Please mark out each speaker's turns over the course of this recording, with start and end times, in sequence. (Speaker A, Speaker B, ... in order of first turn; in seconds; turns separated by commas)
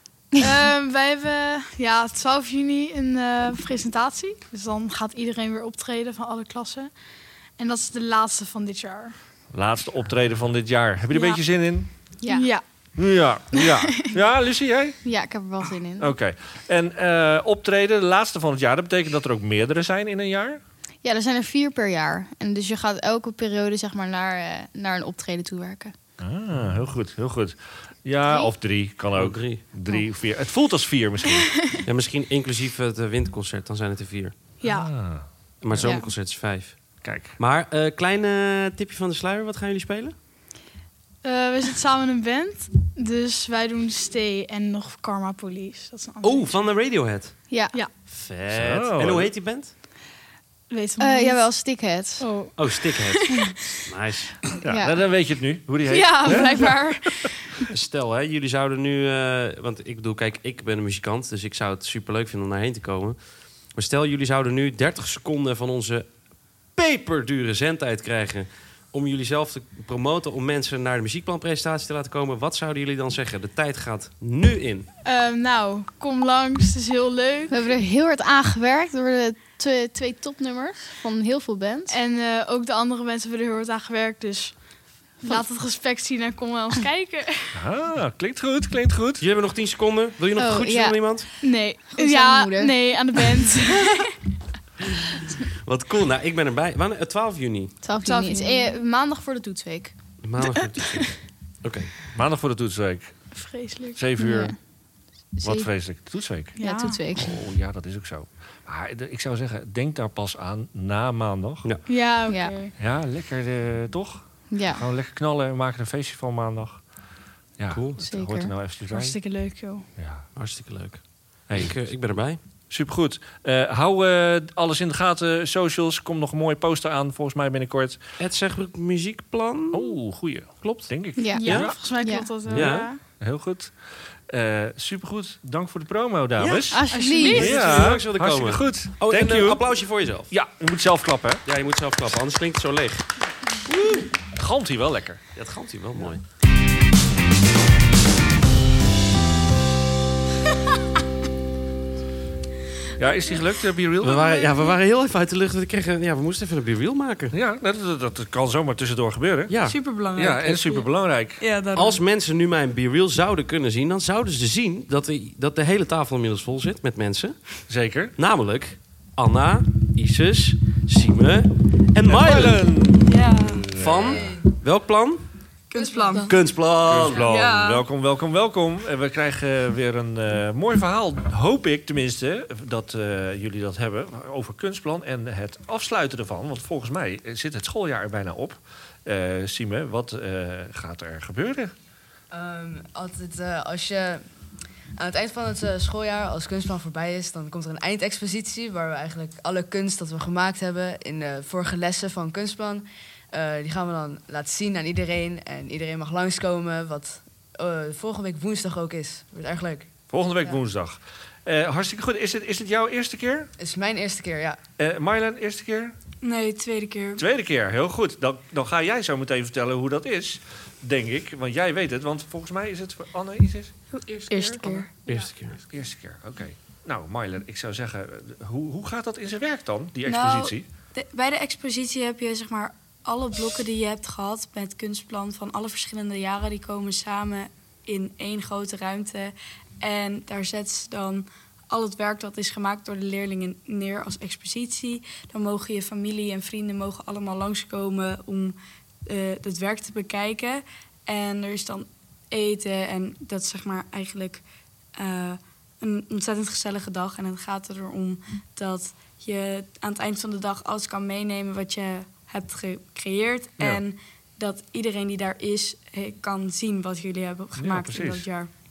Speaker A: 0.4-6.9, Speaker A: 7.6-9.2, Speaker B: 9.5-11.9, Speaker A: 11.1-11.4, Speaker C: 12.2-12.6, Speaker A: 12.3-12.6, Speaker B: 13.0-15.0, Speaker C: 15.0-16.1, Speaker B: 16.0-20.6, Speaker C: 21.0-25.9, Speaker B: 26.2-31.6, Speaker D: 29.2-29.6, Speaker D: 31.9-34.4, Speaker A: 34.6-35.0, Speaker B: 34.6-35.9, Speaker D: 35.6-40.2, Speaker C: 35.8-36.1, Speaker B: 37.0-37.4, Speaker A: 41.2-46.6, Speaker D: 46.2-47.4, Speaker C: 47.5-47.8, Speaker D: 48.1-49.7, Speaker B: 48.5-49.3, Speaker A: 50.7-53.6, Speaker C: 51.0-52.5, Speaker D: 52.6-54.4, Speaker B: 54.6-57.1, Speaker C: 54.7-55.4, Speaker C: 55.9-57.1, Speaker A: 55.9-57.3, Speaker D: 57.7-74.9, Speaker A: 75.0-77.6, Speaker C: 77.5-82.0, Speaker A: 81.9-87.6, Speaker B: 87.5-89.2, Speaker D: 89.2-91.3, Speaker C: 90.4-93.5, Speaker A: 91.4-94.1, Speaker D: 95.6-97.7, Speaker C: 97.8-100.0, Speaker A: 98.0-98.8, Speaker D: 100.2-102.0, Speaker B: 102.1-103.3, Speaker A: 103.3-104.1, Speaker B: 104.0-104.8, Speaker C: 104.2-104.6, Speaker C: 105.3-105.7, Speaker B: 105.4-106.6, Speaker A: 106.5-107.0, Speaker C: 106.6-107.4, Speaker B: 107.1-111.8, Speaker A: 111.9-112.7, Speaker C: 112.1-112.6, Speaker B: 112.8-116.9, Speaker C: 114.5-114.8, Speaker B: 117.6-120.3, Speaker D: 117.7-118.0, Speaker C: 118.0-118.6, Speaker A: 118.9-119.9, Speaker D: 120.3-122.4, Speaker B: 121.5-128.0, Speaker D: 128.2-130.0, Speaker B: 129.7-131.8, Speaker D: 130.6-131.8, Speaker C: 131.2-132.4, Speaker A: 131.3-133.0, Speaker D: 132.5-132.9, Speaker B: 132.5-133.8, Speaker B: 134.3-136.8, Speaker D: 136.4-140.3, Speaker C: 136.7-137.7, Speaker A: 136.9-137.6, Speaker B: 137.4-141.4, Speaker D: 141.4-143.1, Speaker D: 143.7-144.1, Speaker B: 144.3-145.2, Speaker D: 145.4-146.2, Speaker B: 153.0-154.5, Speaker D: 154.0-157.3, Speaker B: 157.3-161.4, Speaker D: 159.5-159.9, Speaker E: 159.7-160.9, Speaker E: 161.4-162.0, Speaker D: 161.7-167.6, Speaker B: 167.7-168.2, Speaker D: 168.2-172.8, Speaker B: 172.1-174.3, Speaker A: 173.1-173.4, Speaker E: 173.1-173.6, Speaker D: 173.7-175.3, Speaker F: 174.0-174.5, Speaker E: 175.7-176.4, Speaker F: 175.7-176.3, Speaker D: 176.3-177.3, Speaker B: 176.6-191.7, Speaker E: 177.2-177.9, Speaker F: 192.3-194.3, Speaker F: 195.0-209.9, Speaker B: 210.1-213.5, Speaker F: 213.6-214.6, Speaker B: 214.8-215.9, Speaker E: 216.2-217.2, Speaker B: 217.2-223.7, Speaker E: 224.3-224.9, Speaker D: 225.1-225.6, Speaker B: 225.7-230.7, Speaker E: 230.1-254.4, Speaker E: 255.0-268.5, Speaker B: 267.6-268.3